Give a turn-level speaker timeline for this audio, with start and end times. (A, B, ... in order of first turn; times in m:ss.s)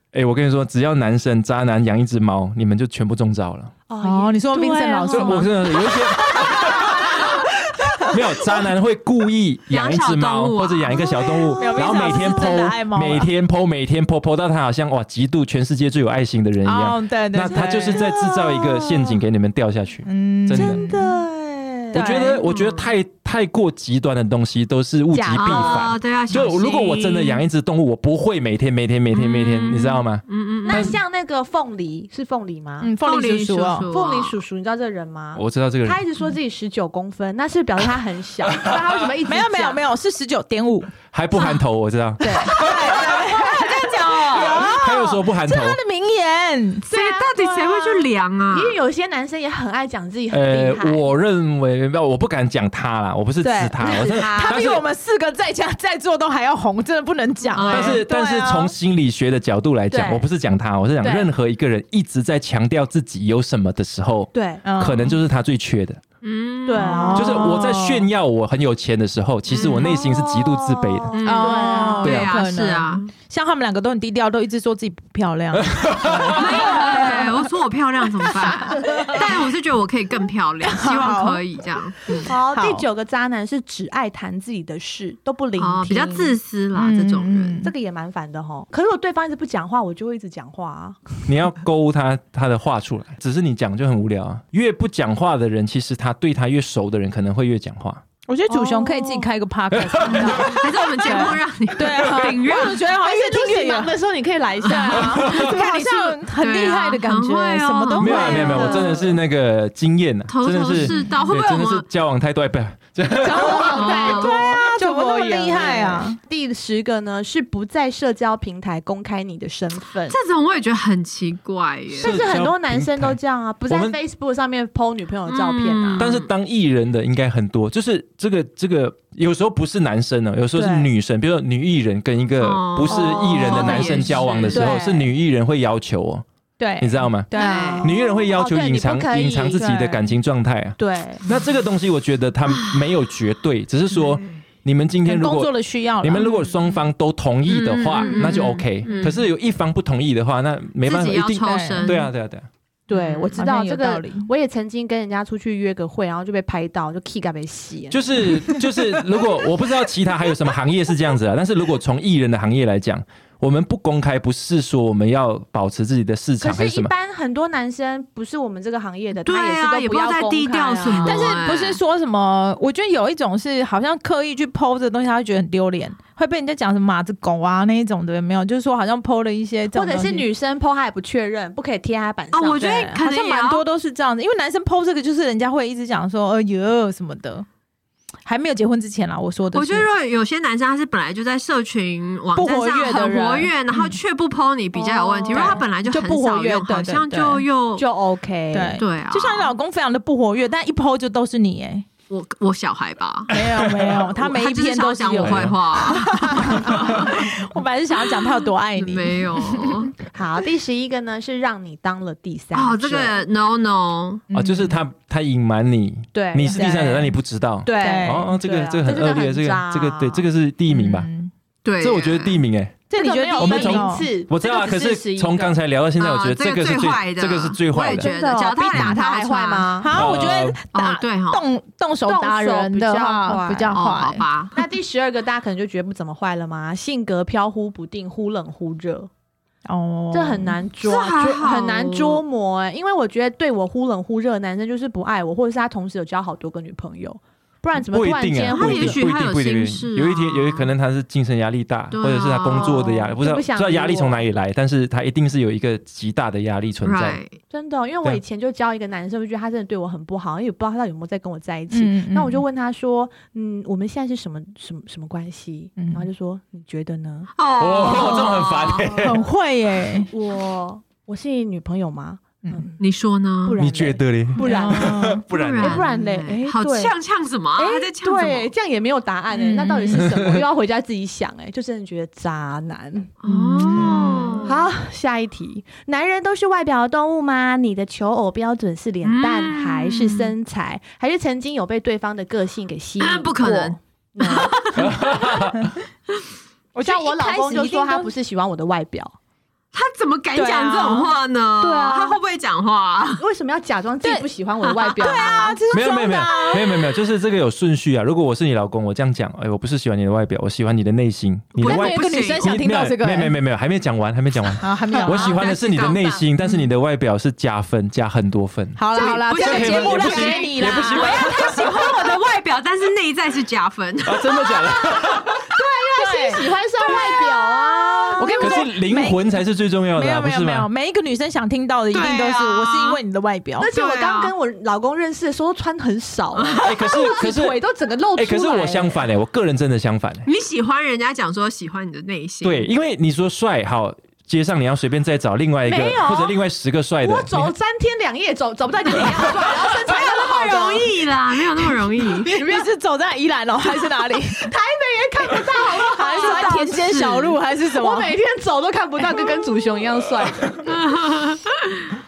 0:00.1-0:03.7 A
0:03.9-0:08.6 B
0:04.0-0:05.9 C
0:05.1-0:07.4 A
0:08.1-0:20.8 A
0:09.7-0:11.4 D
0:11.6-0:12.5 B
0:11.6-0:13.3 C
0:16.6-0:18.1 C
0:17.5-0:19.2 B
0:20.1-0:21.2 C
0:20.5-0:22.3 B
0:21.9-0:22.4 C
0:21.9-0:31.0 A
0:22.4-0:22.9 D
0:25.1-0:25.9 B
0:25.4-0:27.4 D
0:29.1-0:31.0 D
0:30.6-0:32.9 B
0:32.8-0:33.9 C
0:33.0-0:34.4 D
0:33.9-0:39.8 B
0:35.4-0:36.0 A
0:39.2-0:40.9 C
0:41.1-0:42.8 A
0:42.2-0:46.9 C
0:42.2-0:43.1 B
0:42.6-0:44.7 D
0:44.4-0:45.8 A
0:46.9-0:51.0 B
0:46.9-0:48.8 D
0:50.3-0:54.8 A
0:53.4-0:54.6 B
0:53.8-0:58.7 C
0:57.6-0:58.0 D
0:57.7-1:06.0 A
0:59.9-1:00.3 B
1:01.0-1:01.3 B
1:04.3-1:04.6 B
1:04.6-1:05.2 C
1:06.2-1:07.2 D
1:06.7-1:07.6 B
1:06.8-1:08.1 C
1:07.2-1:11.2 A
1:09.5-1:10.0 D
1:09.6-1:12.2 B
1:11.1-1:13.1 D
1:11.2-1:17.3 C
1:12.0-1:12.3 A
1:15.6-1:16.6 A
1:16.4-1:22.3 D
1:18.4-1:19.3 C
1:18.9-1:19.2 B
1:20.6-1:21.4 C
1:22.1-1:22.8 C
1:22.2-1:26.4 B
1:25.6-1:27.6 D
1:26.8-1:27.7 C
1:27.6-1:31.2 B
1:31.3-1:38.0 A
1:38.3-1:43.9 C
1:38.5-1:39.3 B
1:39.7-1:40.7 A
1:40.1-1:42.8 D
1:42.9-1:45.6 B
1:44.6-1:48.8 D
1:44.7-1:49.0 C
1:45.0-1:45.5 A
1:48.0-1:54.0 A
1:48.2-1:49.1 B
1:50.3-1:51.8 D
1:50.9-1:51.2 C
1:53.2-2:00.2 B
1:53.2-1:56.2 C
1:53.7-1:54.4 D
2:00.1-2:02.2 D
2:01.9-2:06.2 B
2:02.0-2:04.0 A
2:05.3-2:06.3 D
2:06.0-2:16.2 A
2:10.5-2:10.9 B
2:12.4-2:14.8 D
2:12.9-2:15.0 B
2:13.4-2:13.9 C
2:14.5-2:15.0 C
2:16.6-2:17.9 C
2:16.8-2:32.5 A
2:17.3-2:19.7 B
2:17.4-2:17.9 D
2:19.6-2:20.0 C
2:20.8-2:21.2 B
2:22.5-2:22.9 D
2:24.0-2:24.2 D
2:25.1-2:26.3 C
2:27.5-2:29.2 D
2:28.0-2:28.3 C
2:30.8-2:32.1 D
2:31.4-2:32.1 C
2:32.9-2:38.6 B
2:32.9-2:33.4 D
2:33.3-2:34.3 C
2:37.9-2:46.9 A
2:46.4-2:51.3 B
2:49.2-2:51.8 D
2:50.9-3:00.3 C
2:59.7-3:02.7 B
3:02.3-3:03.6 D
3:02.6-3:07.5 C
3:08.2-3:09.9 C
3:09.5-3:17.9 D
3:12.4-3:14.0 C
3:14.8-3:17.4 C
3:15.2-3:15.7 B
3:17.8-3:18.8 B
3:18.5-3:21.9 C
3:18.8-3:19.6 D
3:22.1-3:23.3 D
3:23.3-3:29.9 C
3:23.3-3:24.1 A
3:24.2-3:27.4 D
3:25.1-3:25.6 A
3:28.1-3:29.9 D
3:30.1-3:33.2 B
3:32.5-3:34.2 D
3:34.3-3:34.8 C
3:34.3-3:41.1 A
3:36.1-3:37.0 B
3:36.4-3:37.1 C
3:37.6-3:40.3 B
3:37.7-3:38.3 C
3:40.7-3:41.3 C
3:41.6-3:42.4 D
3:41.8-3:42.8 A
3:42.9-3:44.1 C
3:42.9-3:45.6 B
3:43.4-3:48.1 A
3:46.0-3:49.7 D
3:47.7-3:50.0 B
3:49.8-3:54.2 C
3:49.9-3:50.6 A
3:50.7-3:51.4 D
3:52.1-3:53.8 B
3:53.7-3:54.6 D
3:54.6-3:59.1 B
3:59.7-4:00.6 C
4:00.1-4:09.0 B
4:00.8-4:02.2 D
4:07.8-4:17.2 A
4:08.5-4:10.7 D
4:11.9-4:13.0 D
4:12.6-4:14.2 B
4:16.8-4:17.4 D
4:17.5-4:27.3 B
4:21.7-4:22.4 C
4:25.8-4:26.1 C
4:27.4-4:28.9 D
4:27.6-4:29.3 A
4:27.8-4:29.2 B
4:29.0-4:30.1 C
4:30.1-4:32.8 B
4:32.8-4:33.6 D
4:33.4-4:36.9 B
4:33.6-4:35.9 A
4:34.4-4:35.2 C
4:35.3-4:38.5 D
4:37.6-4:55.1 B
4:39.3-4:40.1 C
4:39.9-4:40.4 A
4:43.2-4:44.6 D
4:43.3-4:44.5 C
4:49.0-4:50.3 D
4:53.0-4:55.4 D
4:54.8-4:55.7 A
4:56.8-4:58.1 C
4:56.8-4:59.2 B
4:59.7-5:03.2 D
5:00.4-5:01.1 C
5:01.6-5:02.2 B
5:03.2-5:05.6 B
5:04.0-5:04.3 C
5:04.6-5:05.6 D
5:05.0-5:06.7 C
5:05.7-5:21.6 A
5:11.5-5:12.5 D
5:11.6-5:13.4 C
5:14.6-5:15.3 C
5:15.0-5:16.3 D
5:18.8-5:21.7 C
5:18.9-5:25.5 D
5:21.0-5:21.9 B
5:24.0-5:25.4 A
5:25.5-5:28.6 B
5:26.0-5:26.4 C
5:26.8-5:27.7 D
5:28.2-5:29.2 C
5:28.4-5:30.7 A
5:30.0-5:33.7 C
5:31.9-5:33.0 D
5:33.6-5:39.1 B
5:33.7-5:34.3 D
5:36.4-5:36.8 D
5:36.6-5:37.6 A
5:38.2-5:40.3 A
5:40.2-5:42.7 D
5:42.4-5:47.5 A
5:45.7-5:46.4 B
5:47.0-5:51.3 B
5:49.5-5:52.4 D
5:52.2-5:54.5 C
5:54.4-5:56.8 B
5:55.6-5:58.2 C
5:56.0-5:57.4 D
5:57.8-6:00.8 B
6:00.7-6:01.8 D